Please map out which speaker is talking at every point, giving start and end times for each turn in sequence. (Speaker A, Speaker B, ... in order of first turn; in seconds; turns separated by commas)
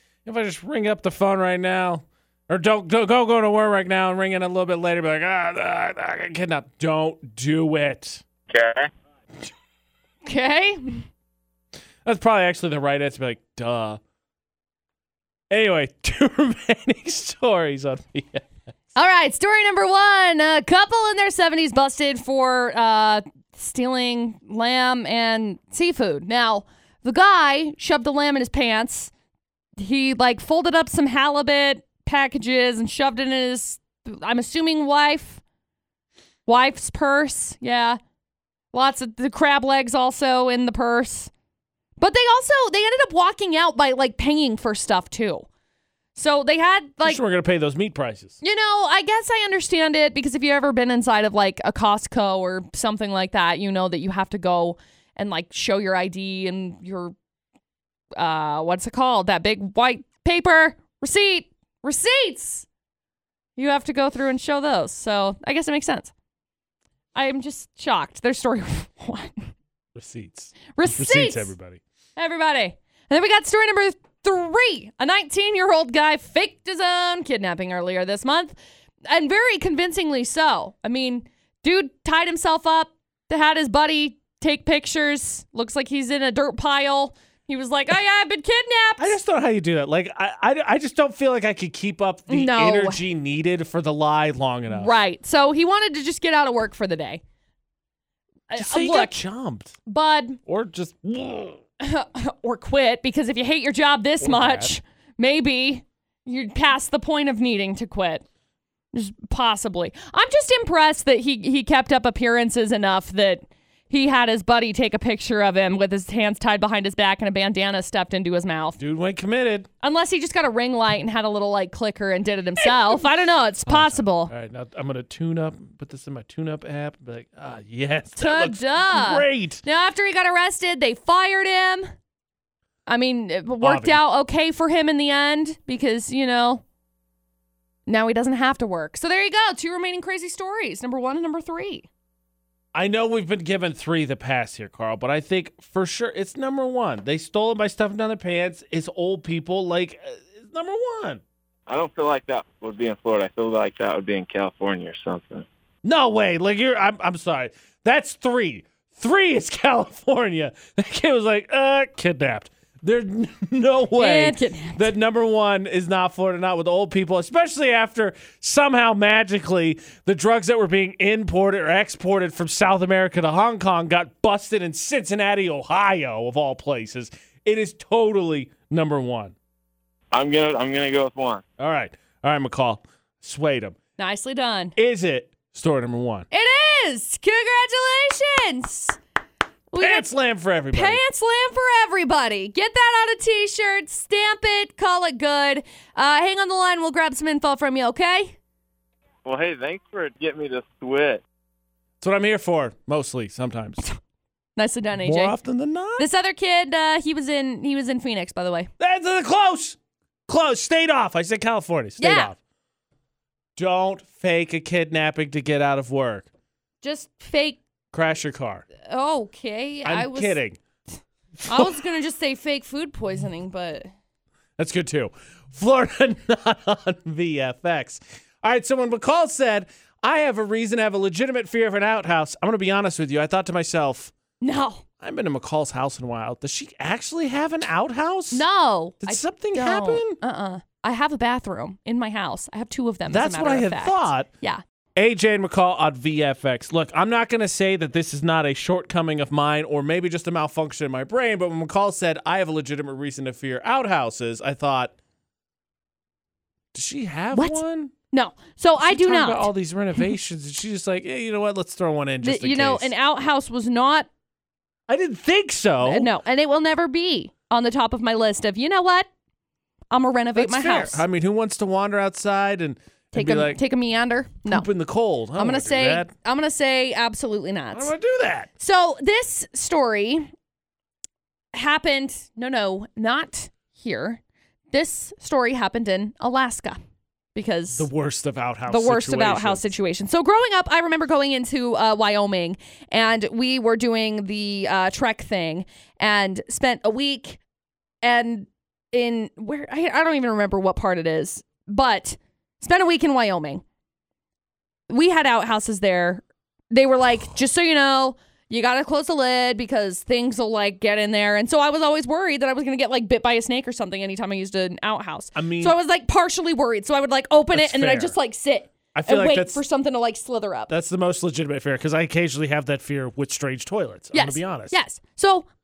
Speaker A: 0.2-8.2, Speaker B: 8.5-8.9, Speaker C: 10.2-11.1, Speaker A: 12.0-14.0, Speaker A: 15.5-18.5, Speaker C: 18.9-29.1, Speaker C: 29.8-35.4, Speaker C: 36.5-38.0, Speaker C: 38.7-41.3, Speaker C: 42.0-45.5, Speaker C: 46.1-47.2, Speaker A: 47.0-48.4, Speaker C: 48.4-57.1, Speaker C: 58.1-62.6, Speaker C: 63.6-66.1, Speaker C: 67.1-69.5, Speaker A: 69.9-71.8, Speaker C: 70.7-71.5, Speaker C: 72.2-78.5, Speaker C: 79.1-89.2, Speaker A: 89.0-94.9, Speaker C: 92.3-93.0, Speaker C: 94.7-97.2, Speaker C: 98.5-99.2, Speaker A: 98.5-99.7, Speaker C: 99.8-100.4, Speaker A: 100.5-101.6, Speaker C: 101.8-108.2, Speaker A: 104.2-104.7, Speaker C: 108.9-118.8, Speaker A: 118.8-119.7, Speaker C: 119.8-124.3, Speaker A: 123.7-129.6, Speaker C: 128.2-131.9, Speaker C: 132.9-136.6, Speaker A: 133.6-134.0, Speaker C: 137.9-141.9, Speaker A: 142.7-151.2, Speaker B: 151.7-155.4, Speaker A: 155.8-179.3, Speaker C: 164.0-164.9, Speaker B: 180.1-181.4, Speaker A: 181.6-183.8, Speaker C: 184.0-184.7, Speaker A: 184.8-186.2, Speaker C: 186.3-189.0, Speaker C: 189.7-190.1, Speaker A: 189.8-191.0, Speaker C: 190.7-198.4, Speaker B: 199.2-201.2, Speaker A: 202.0-203.8, Speaker C: 204.6-205.3, Speaker A: 205.0-206.1, Speaker C: 206.0-208.7, Speaker A: 208.8-212.4, Speaker C: 212.0-212.3, Speaker A: 213.6-216.3, Speaker C: 216.8-217.6, Speaker A: 217.9-218.7, Speaker C: 218.8-220.3, Speaker A: 219.8-220.6, Speaker A: 221.4-221.8, Speaker C: 221.5-223.9, Speaker A: 224.6-234.1, Speaker C: 234.4-234.8, Speaker A: 235.0-238.4, Speaker C: 238.3-244.6, Speaker A: 239.0-240.2, Speaker A: 243.1-244.3, Speaker A: 244.9-254.9, Speaker A: 256.7-257.9, Speaker C: 257.3-259.5, Speaker A: 258.8-262.9, Speaker C: 262.2-264.1, Speaker A: 264.9-266.1, Speaker C: 265.8-269.1, Speaker C: 269.9-271.0, Speaker A: 270.3-273.6, Speaker C: 273.1-274.7, Speaker A: 274.5-276.1, Speaker C: 275.4-277.9, Speaker A: 277.7-278.5, Speaker C: 278.6-280.3, Speaker C: 281.5-284.2, Speaker C: 284.7-286.8, Speaker C: 287.3-287.9, Speaker A: 287.8-289.7, Speaker C: 288.7-297.4, Speaker C: 298.0-303.6, Speaker C: 304.9-320.7, Speaker A: 315.3-315.7, Speaker A: 317.5-318.1, Speaker A: 318.9-319.6, Speaker A: 320.7-324.8, Speaker C: 324.1-325.5